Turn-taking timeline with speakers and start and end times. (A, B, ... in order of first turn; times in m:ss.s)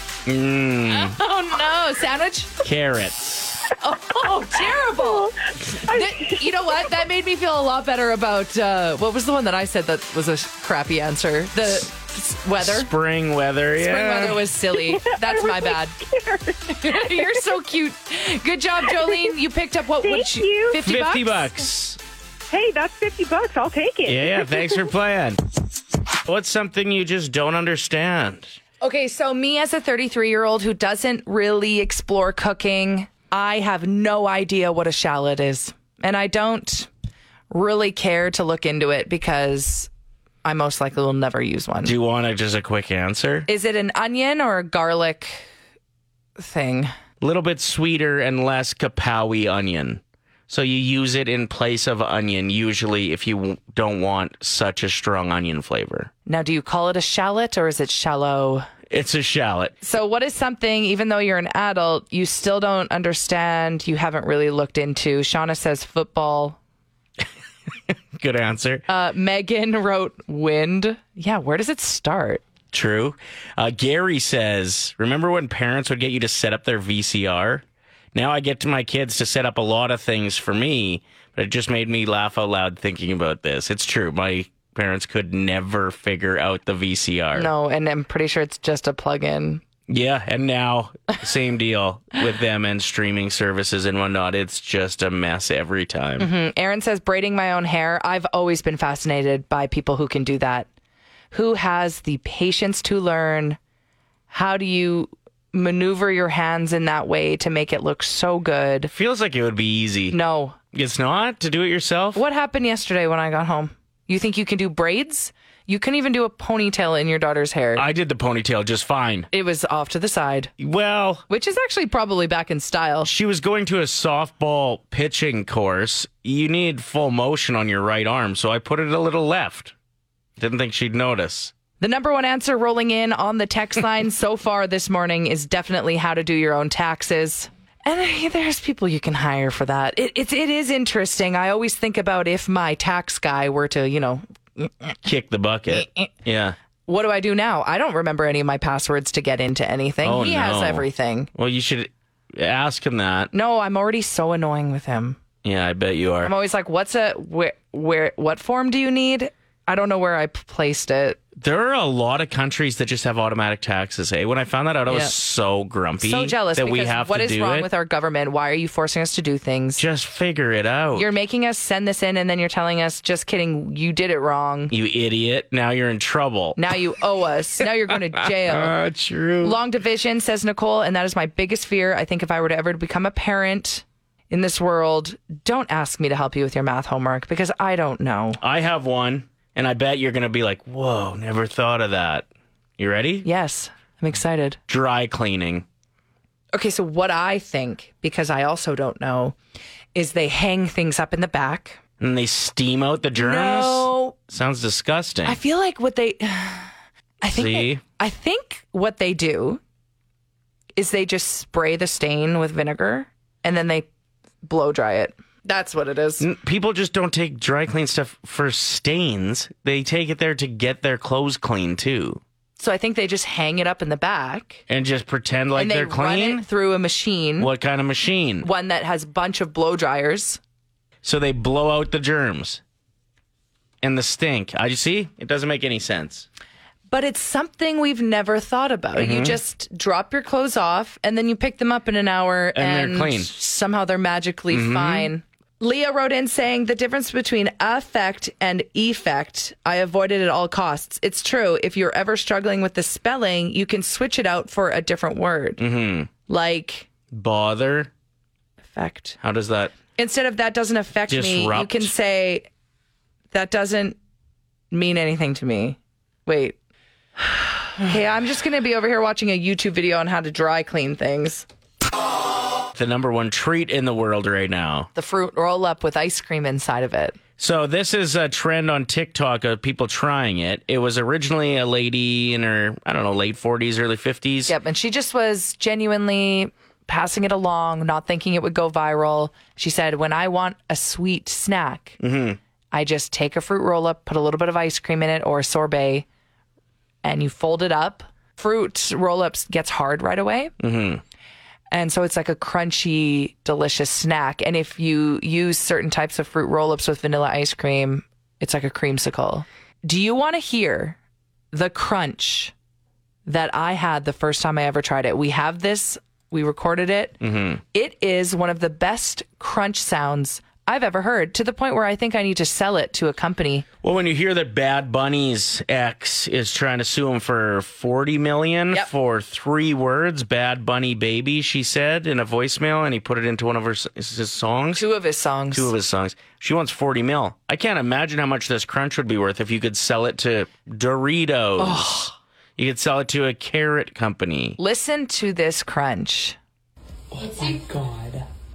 0:00.2-0:01.2 A
0:00.8-0:02.5 B
0:02.6-0:03.8 A
0:03.8-0:12.9 B
0:05.0-0:06.4 C
0:12.6-0:14.5 A
0:13.8-0:16.0 B
0:14.8-0:17.5 C
0:16.7-0:21.6 B
0:18.9-0:19.2 C
0:20.0-0:20.8 C
0:20.8-0:22.0 A
0:22.5-0:24.7 C
0:24.0-0:25.4 A
0:26.2-0:28.6 A
0:28.8-0:36.9 B
0:37.5-0:39.9 B
0:40.4-0:41.9 B
0:41.8-0:43.5 A
0:43.5-0:45.5 B
0:46.4-0:46.9 B
0:47.2-0:56.1 A
0:56.2-0:58.7 B
0:58.9-0:59.8 A
0:59.8-1:06.6 B
1:07.9-1:08.9 A
1:08.9-1:12.4 B
1:12.7-1:17.6 A
1:18.1-1:27.5 A
1:27.3-1:29.6 B
1:29.9-1:36.3 A
1:36.2-1:40.7 B
1:41.3-1:43.6 B
1:44.3-1:48.9 B
1:48.9-1:50.2 A
1:50.1-1:50.6 B
1:50.7-1:52.2 A
1:52.1-1:57.8 B
1:57.8-1:59.3 A
1:59.3-2:00.5 B
2:00.6-2:01.2 A
2:01.3-2:03.1 B
2:03.0-2:09.7 A
2:10.4-2:11.5 A
2:11.8-2:25.0 B
2:25.0-2:26.6 A
2:25.7-2:26.1 B
2:26.9-2:31.3 B
2:30.0-2:33.3 A
2:33.3-2:35.2 B
2:35.4-2:36.3 A
2:36.2-2:41.2 B
2:41.4-2:47.7 A
2:44.9-2:45.1 B
2:46.0-2:49.8 B
2:49.8-2:51.1 A
2:51.0-2:54.7 B
2:54.7-2:56.6 A
2:56.6-2:58.8 B
2:58.2-2:59.6 A
2:59.4-3:08.4 B
3:08.4-3:12.3 A
3:12.8-3:13.3 A
3:13.2-3:14.6 B
3:14.7-3:15.6 A
3:16.5-3:19.4 B
3:19.9-3:21.8 B
3:22.0-3:25.4 A
3:23.1-3:24.2 B
3:25.2-3:29.6 B
3:27.3-3:27.8 A
3:30.8-3:33.9 B
3:34.4-3:36.2 B
3:36.2-3:42.2 A
3:42.6-3:44.6 B
3:44.7-3:46.4 A
3:45.5-3:47.5 B
3:47.4-3:48.5 A
3:48.4-3:50.4 B
3:51.0-3:52.6 A
3:53.8-3:56.3 A
3:56.9-4:15.6 B
3:58.9-3:59.4 A
4:02.6-4:03.3 A
4:04.5-4:05.1 A
4:15.6-4:16.1 A
4:16.3-4:16.9 B
4:17.1-4:17.9 A
4:18.7-4:19.2 B
4:19.2-4:19.7 A
4:19.9-4:22.4 B
4:21.1-4:21.9 A
4:23.3-4:24.0 B
4:24.7-4:26.6 B
4:27.7-4:31.5 B
4:32.7-4:34.9 A
4:34.9-4:37.2 B
4:37.4-4:44.6 A
4:44.5-4:52.0 B
4:52.0-4:52.4 A
4:52.7-4:56.1 B
4:57.0-5:00.5 B
5:00.6-5:01.0 A
5:01.7-5:11.0 B
5:11.5-5:12.5 B
5:13.2-5:17.2 B
5:17.2-5:17.6 A
5:17.7-5:23.6 B
5:23.8-5:34.9 A
5:34.7-5:35.7 B
5:35.5-5:44.6 A
5:41.6-5:42.1 B
5:44.6-5:46.4 B
5:47.3-5:47.6 B